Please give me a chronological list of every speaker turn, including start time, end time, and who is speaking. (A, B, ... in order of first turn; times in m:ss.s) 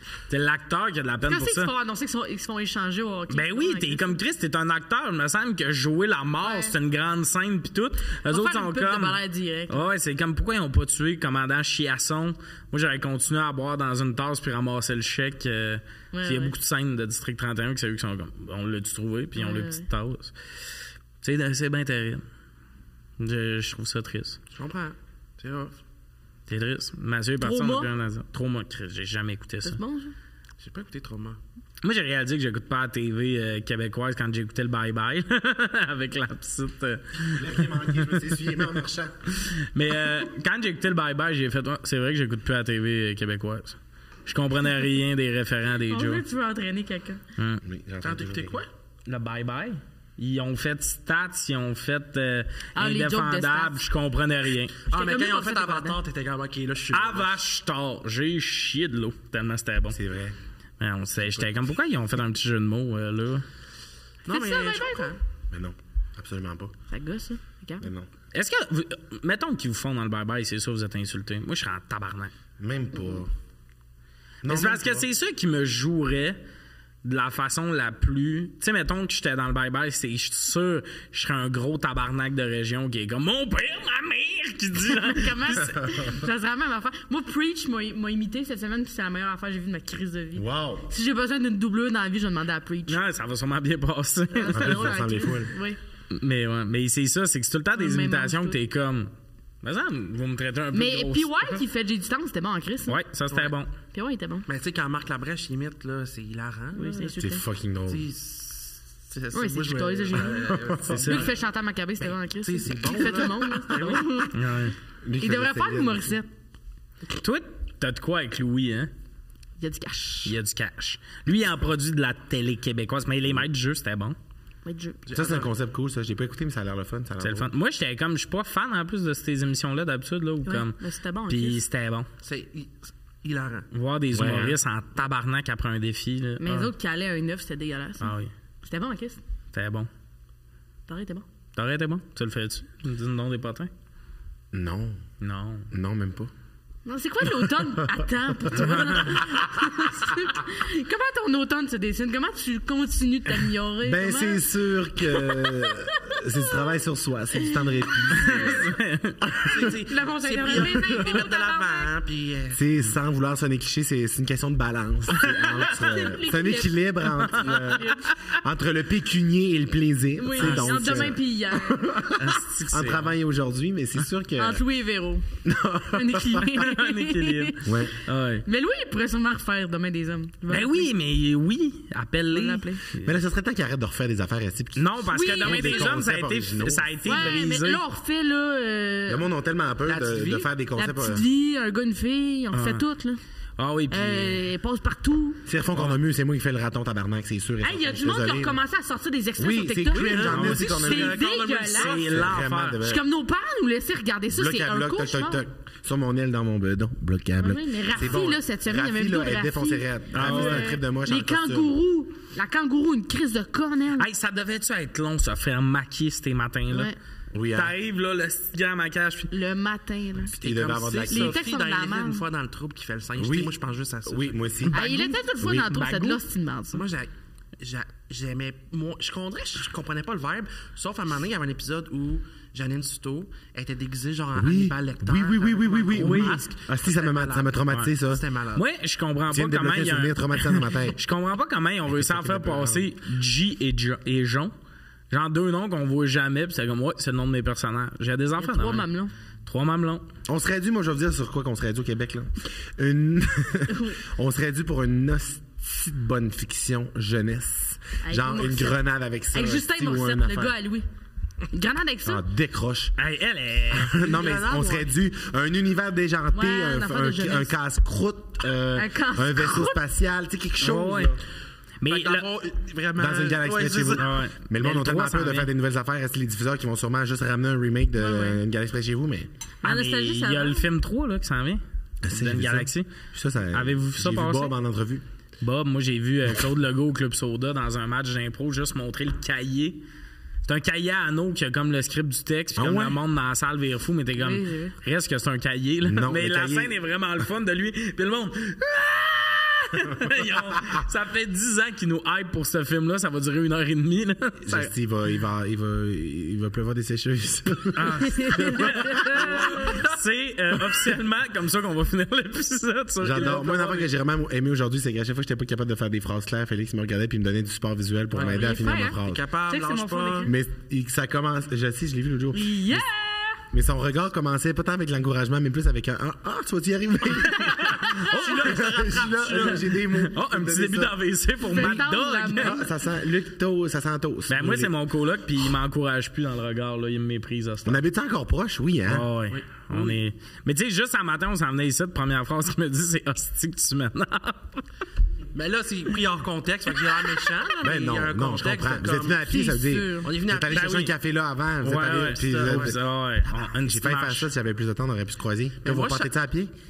0:00.3-0:01.7 A
0:01.2-0:04.2 B
0:03.3-0:20.3 A
0:06.4-0:06.7 B
0:08.2-0:09.9 B
0:16.1-0:16.5 B
0:19.3-0:19.9 B
0:21.2-0:22.2 A
0:23.2-0:24.4 A
0:24.5-0:25.8 C
0:26.5-0:29.8 A
0:27.4-0:27.9 B
0:29.6-0:30.1 B
0:30.6-0:31.4 C
0:31.8-0:38.7 A
0:37.3-0:39.2 D
0:39.3-0:46.2 A
0:45.9-0:47.2 B
0:47.4-0:47.6 A
0:47.6-0:48.6 D
0:48.0-0:48.7 C
0:49.0-0:54.8 A
0:52.8-0:53.8 B
0:54.9-0:57.3 C
0:54.9-0:56.0 B
0:56.9-1:00.0 A
0:59.9-1:00.4 D
1:00.8-1:03.4 A
1:01.3-1:01.5 D
1:04.2-1:05.2 C
1:04.3-1:05.2 B
1:05.5-1:06.7 D
1:06.9-1:07.9 B
1:07.8-1:08.1 D
1:08.3-1:12.3 A
1:12.6-1:13.3 D
1:14.4-1:15.1 D
1:14.4-1:16.4 A
1:17.0-1:25.7 A
1:24.8-1:33.0 B
1:25.8-1:26.1 D
1:30.4-1:30.9 D
1:32.9-1:35.0 A
1:34.3-1:35.8 B
1:34.5-1:35.6 D
1:36.1-1:39.1 A
1:37.7-1:38.6 B
1:39.6-1:41.6 A
1:40.7-1:43.0 B
1:42.9-1:43.7 A
1:43.9-1:44.4 B
1:44.5-1:47.1 C
1:46.7-1:47.4 B
1:47.2-1:48.0 D
1:47.8-1:51.4 C
1:49.3-1:54.6 B
1:50.8-1:51.3 A
1:52.4-1:54.2 C
1:52.8-1:54.0 D
1:53.7-1:54.7 A
1:55.0-1:56.1 D
1:55.2-1:56.3 B
1:57.1-1:58.9 A
1:59.6-2:00.3 B
2:00.2-2:04.2 A
2:04.6-2:05.0 B
2:05.1-2:05.5 C
2:05.1-2:07.5 D
2:07.2-2:12.1 A
2:10.4-2:11.6 B
2:12.2-2:14.4 C
2:13.7-2:16.7 A
2:14.1-2:14.6 D
2:16.4-2:19.2 B
2:18.0-2:18.3 A
2:19.5-2:19.9 A
2:20.9-2:21.3 B
2:21.6-2:23.7 A
2:24.5-2:25.0 D
2:25.2-2:25.7 A
2:25.7-2:26.3 D
2:26.8-2:36.7 B
2:28.4-2:29.7 D
2:28.6-2:29.1 A
2:33.8-2:39.6 D
2:38.1-2:38.7 B
2:38.1-2:39.2 A
2:39.4-2:42.6 C
2:39.8-2:41.9 B
2:42.5-2:54.6 D
2:45.1-2:45.9 A
2:45.4-2:48.1 B
2:47.4-2:48.2 A
2:50.2-2:52.0 B
2:50.4-2:51.1 A
2:52.1-2:53.1 A
2:54.4-2:55.3 B
2:55.4-2:56.6 D
2:55.8-2:57.9 B
2:56.6-2:58.4 A
2:57.6-2:58.0 D
2:58.4-3:00.9 B
3:00.5-3:03.1 A
3:02.3-3:02.8 B
3:03.0-3:07.4 D
3:04.8-3:07.8 A
3:05.1-3:06.0 B
3:07.0-3:09.2 B
3:09.1-3:11.2 D
3:09.8-3:10.5 C
3:10.8-3:13.2 B
3:12.5-3:12.8 A
3:13.6-3:14.4 A
3:13.9-3:15.4 B
3:15.4-3:18.6 D
3:17.6-3:22.0 B
3:19.4-3:21.2 D
3:19.9-3:22.3 C
3:20.3-3:20.9 A
3:21.7-3:22.9 A
3:22.1-3:23.0 D
3:22.8-3:25.4 B
3:24.3-3:31.7 D
3:27.4-3:34.1 B
3:30.1-3:30.8 A
3:34.0-3:36.9 A
3:36.7-3:37.0 B
3:37.3-3:37.7 D
3:37.5-3:39.3 A
3:39.3-3:42.2 B
3:40.2-3:41.4 D
3:40.9-3:44.6 C
3:43.2-3:44.8 D
3:44.7-3:46.2 A
3:44.7-3:46.9 B
3:46.7-3:58.6 C
3:54.3-3:58.2 D
3:55.9-3:56.4 A
3:58.5-4:04.5 A
3:59.3-4:01.0 D
4:01.9-4:02.9 D
4:05.1-4:08.9 A
4:08.4-4:09.1 B
4:09.4-4:10.1 A
4:10.3-4:20.6 D
4:18.0-4:20.8 B
4:21.5-4:22.2 B
4:22.1-4:22.9 D
4:23.0-4:24.2 A
4:23.7-4:31.2 D
4:24.1-4:24.9 C
4:26.3-4:27.5 B
4:28.7-4:29.8 B
4:30.6-4:31.1 A
4:31.8-4:32.3 A
4:31.8-4:34.2 C
4:33.0-4:39.3 D
4:34.0-4:35.5 A
4:38.0-4:38.4 B
4:39.6-4:40.6 B
4:39.6-4:42.9 A
4:42.0-4:45.0 D
4:43.5-4:44.6 A
4:45.4-4:49.8 A
4:50.4-5:04.7 A
4:52.6-4:53.0 D
4:54.2-4:54.8 B
4:55.8-4:56.8 D
5:04.4-5:09.3 D
5:07.8-5:13.6 A
5:08.0-5:09.7 B
5:09.1-5:09.9 C
5:13.0-5:19.2 D
5:13.1-5:13.9 C
5:18.1-5:20.3 C
5:18.2-5:20.3 B
5:20.2-5:22.8 D
5:22.3-5:23.4 B
5:23.5-5:31.0 D
5:27.3-5:32.6 A
5:27.6-5:28.3 B
5:31.4-5:32.6 B
5:32.4-5:34.7 D
5:34.3-5:37.8 A
5:37.6-5:39.1 D
5:38.9-5:44.6 A
5:39.3-5:40.0 C
5:45.3-5:49.3 C
5:47.6-5:52.8 D
5:49.2-5:50.1 B
5:50.0-5:50.8 C
5:50.5-5:50.9 A
5:51.6-5:54.3 A
5:52.2-5:52.8 C
5:53.3-5:56.5 D
5:55.6-5:56.1 C